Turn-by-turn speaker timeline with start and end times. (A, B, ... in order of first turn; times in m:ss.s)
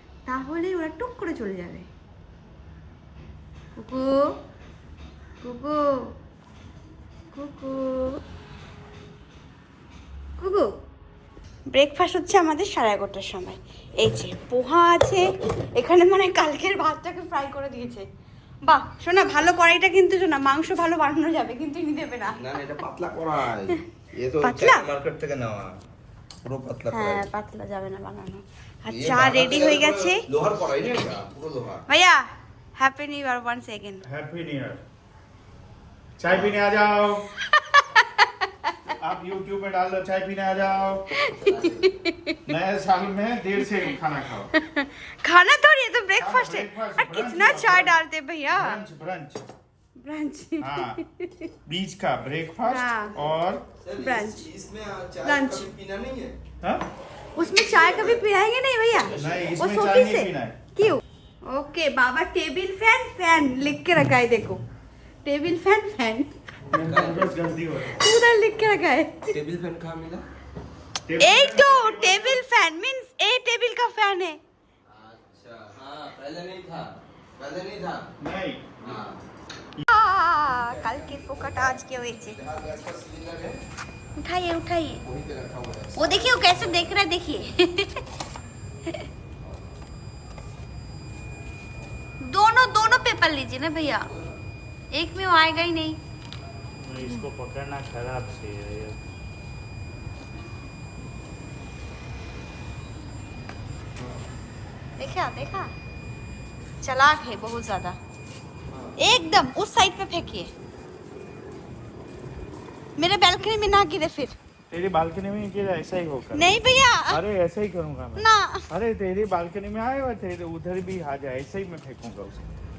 0:00.3-0:01.9 A
0:03.8-0:04.3 A
0:05.4-0:06.1 A
0:07.3-0:08.2 A
0:10.4-0:10.7 A
0:11.7-0:18.1 A
0:18.6-0:22.4 A
0:22.4-0:25.8 B
0:24.4-0:24.8 A
0:26.4-0:27.3 B
0:26.9-0:30.2 A
0:28.9-0:31.8 B
0:31.9-0:32.2 A
0:32.8-0:34.0 A
0:34.0-0:34.8 C
0:36.2-0:37.3 C
0:36.3-0:36.6 B
0:37.4-0:38.9 A
0:39.0-0:41.0 C
0:41.1-0:42.5 A
0:41.4-0:41.8 B
0:42.5-0:44.5 C
0:44.5-0:48.8 A
0:46.2-0:48.0 C
0:48.5-0:49.4 C
0:50.0-0:51.5 A
0:50.6-0:51.0 C
0:51.7-0:53.6 C
0:52.7-0:53.1 A
0:53.8-0:56.4 B
0:54.0-0:54.5 A
0:55.2-0:55.7 A
0:57.4-1:04.6 A
0:57.4-0:58.2 B
0:59.0-0:59.6 B
0:59.1-1:00.6 C
1:05.2-1:06.3 A
1:06.7-1:07.3 B
1:06.7-1:07.9 C
1:07.8-1:09.3 A
1:09.3-1:10.2 B
1:11.1-1:12.4 C
1:11.2-1:14.4 A
1:14.9-1:18.1 B
1:18.2-1:18.7 C
1:18.8-1:19.2 B
1:19.9-1:22.4 A
1:20.5-1:23.6 B
1:24.2-1:25.0 A
1:25.0-1:26.9 B
1:26.0-1:28.0 A
1:32.2-1:34.1 A
1:34.9-1:36.0 A
1:36.8-1:39.0 C
1:45.0-1:45.7 A
1:46.8-1:48.0 A
1:48.7-1:49.0 B
1:49.0-1:50.5 A
1:53.0-1:54.4 A
1:54.7-1:56.6 C
1:56.3-1:57.2 A
1:57.1-2:02.4 C
1:58.2-1:58.6 A